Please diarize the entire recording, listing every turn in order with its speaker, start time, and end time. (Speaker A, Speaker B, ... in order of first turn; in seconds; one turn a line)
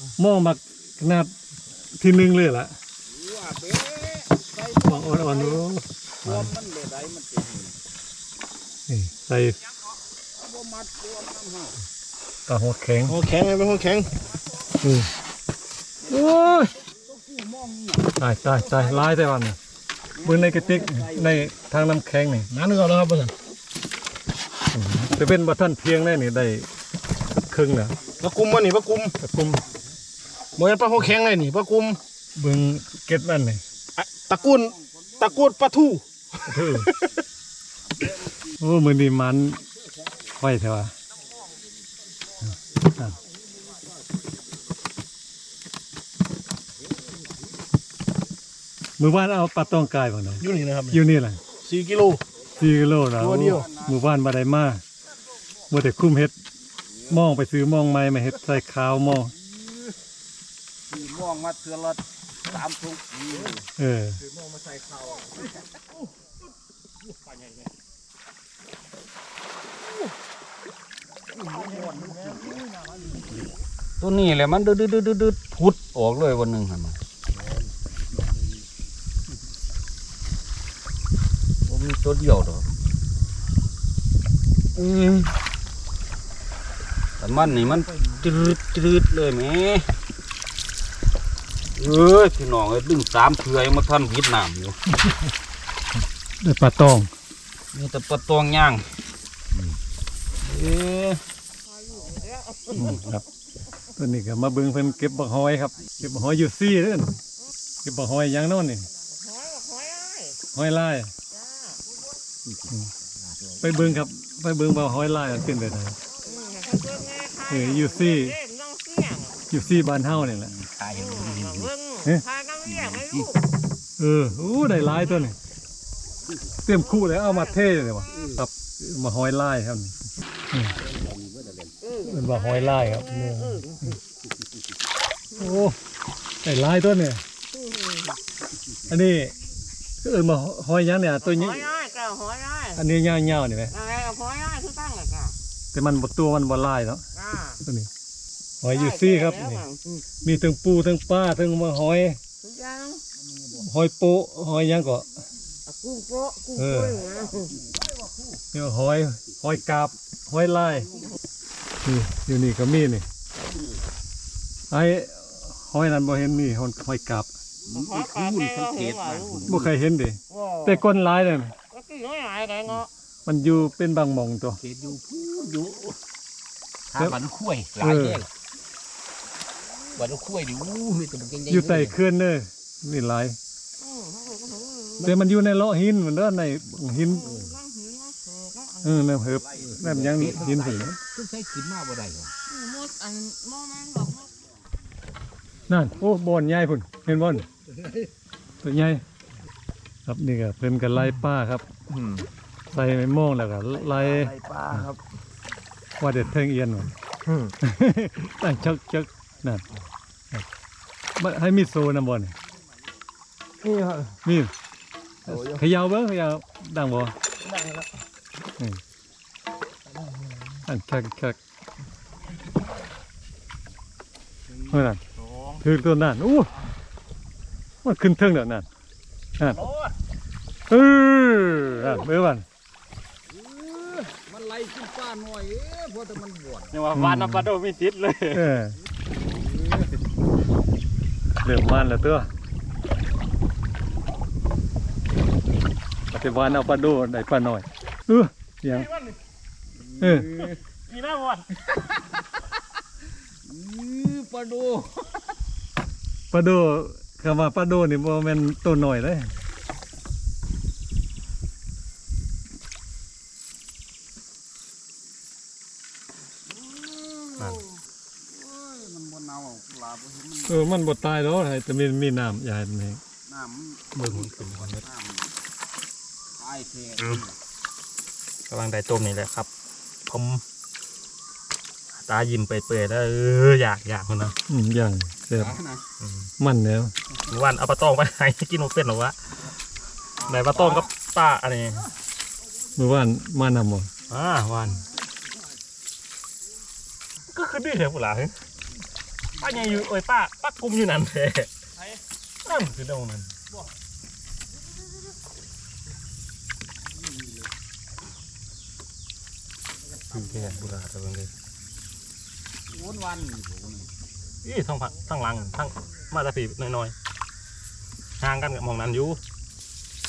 Speaker A: 0.2-1.3
Speaker A: 2.0-2.8
Speaker B: 3.0-7.8
Speaker A: 4.9-6.5
Speaker A: 8.9-9.6
Speaker B: 10.4-11.8
Speaker A: 12.5-13.2
Speaker C: 13.1-14.1
Speaker A: 14.8-15.1
Speaker B: 16.1-18.1
Speaker A: 16.1-16.7
Speaker A: 18.2-19.6
Speaker B: 18.6-19.1
Speaker B: 20.1-21.5
Speaker A: 20.2-22.5
Speaker C: 22.5-23.3
Speaker A: 24.7-26.7
Speaker A: 27.4-28.0
Speaker C: 28.2-29.1
Speaker A: 29.2-29.6
Speaker C: 30.6-32.0
Speaker A: 32.4-33.6
Speaker C: 34.0-37.1
Speaker B: 34.3-35.7
Speaker A: 36.5-36.9
Speaker B: 37.9-38.5
Speaker A: 38.6-39.6
Speaker A: 40.4-40.9
Speaker A: 49.0-51.4
Speaker C: 50.4-51.0
Speaker C: 51.6-52.2
Speaker A: 52.6-54.8
Speaker C: 53.2-53.7
Speaker B: 53.5-54.0
Speaker A: 55.7-56.4
Speaker B: 56.9-57.3
Speaker A: 57.1-59.3
Speaker B: 60.9-63.7
Speaker A: 63.8-64.2
Speaker B: 74.0-77.0
Speaker B: 81.6-82.7
Speaker B: 84.8-85.3
Speaker B: 87.2-89.9
Speaker B: 91.8-94.8
Speaker A: 96.4-97.1
Speaker B: 97.7-98.9
Speaker B: 100.4-101.2
Speaker D: 102.3-102.7
Speaker A: 102.8-103.2
Speaker A: 104.0-107.2
Speaker A: 107.8-108.9
Speaker D: 109.3-110.3
Speaker A: 110.5-111.1
Speaker B: 112.5-112.7
Speaker B: 113.2-114.0
Speaker A: 113.6-116.0
Speaker D: 116.3-117.5
Speaker A: 117.5-118.4
Speaker D: 118.4-119.3
Speaker A: 119.5-120.5
Speaker B: 120.1-121.8
Speaker D: 121.8-123.2
Speaker B: 122.6-123.3
Speaker A: 124.0-125.4
Speaker A: 126.6-130.0
Speaker B: 128.1-128.4
Speaker B: 130.7-131.9
Speaker A: 132.0-133.9
Speaker A: 135.4-135.8
Speaker A: 136.4-137.2
Speaker A: 138.9-139.3
Speaker A: 140.0-141.8
Speaker D: 141.8-142.7
Speaker A: 142.7-143.7
Speaker D: 143.8-145.3
Speaker A: 145.7-147.0
Speaker A: 147.6-147.9
Speaker A: 148.6-149.7
Speaker A: 150.2-152.2
Speaker D: 152.5-153.0
Speaker B: 153.3-153.6
Speaker A: 153.6-155.1
Speaker D: 155.8-157.2
Speaker A: 156.6-157.1
Speaker B: 157.1-158.4
Speaker A: 158.5-160.9
Speaker A: 161.8-163.1
Speaker A: 164.7-167.3
Speaker B: 167.7-169.7
Speaker D: 168.1-169.2
Speaker A: 169.5-171.5
Speaker D: 171.8-172.6
Speaker A: 173.3-174.6
Speaker B: 174.6-175.9
Speaker B: 176.9-178.3
Speaker A: 177.8-178.2
Speaker B: 179.9-182.0
Speaker A: 181.5-183.4
Speaker A: 185.0-187.5
Speaker D: 187.6-188.7
Speaker A: 188.8-190.9
Speaker B: 189.3-192.3
Speaker D: 192.5-194.3
Speaker A: 195.7-197.5
Speaker A: 198.6-199.0
Speaker A: 200.1-201.7
Speaker A: 202.7-204.8
Speaker E: 204.0-204.9
Speaker A: 206.0-206.9
Speaker A: 207.5-209.7
Speaker A: 211.2-212.3
Speaker E: 213.7-214.1
Speaker A: 214.2-214.5
Speaker A: 215.3-217.2
Speaker A: 220.7-221.4
Speaker A: 224.7-225.0
Speaker A: 225.6-226.5
Speaker A: 227.8-228.7
Speaker A: 229.4-229.7
Speaker E: 229.5-229.9
Speaker A: 230.7-232.5
Speaker B: 233.3-236.8
Speaker E: 236.7-238.4
Speaker A: 236.9-237.5
Speaker A: 238.3-238.8
Speaker B: 239.1-240.0
Speaker A: 241.4-242.3
Speaker A: 246.1-248.9
Speaker B: 249.9-250.6
Speaker A: 250.0-250.3
Speaker E: 250.9-251.4
Speaker B: 253.5-255.1
Speaker A: 256.3-259.3
Speaker B: 266.5-271.0
Speaker A: 270.5-273.0
Speaker B: 273.2-275.3
Speaker E: 274.0-274.8
Speaker B: 276.4-277.3
Speaker E: 277.0-277.2
Speaker E: 278.5-279.5
Speaker E: 280.1-280.4
Speaker E: 282.0-284.4
Speaker A: 284.5-285.6
Speaker B: 285.3-285.9
Speaker E: 286.0-286.3
Speaker A: 286.4-286.9
Speaker E: 287.3-289.2
Speaker B: 290.2-291.0
Speaker E: 290.2-291.9
Speaker A: 292.8-293.9
Speaker E: 294.1-294.9
Speaker E: 297.3-298.4
Speaker E: 299.4-301.5
Speaker E: 302.4-303.3
Speaker E: 310.1-311.3
Speaker B: 312.7-313.9
Speaker E: 314.4-316.9
Speaker E: 318.2-319.2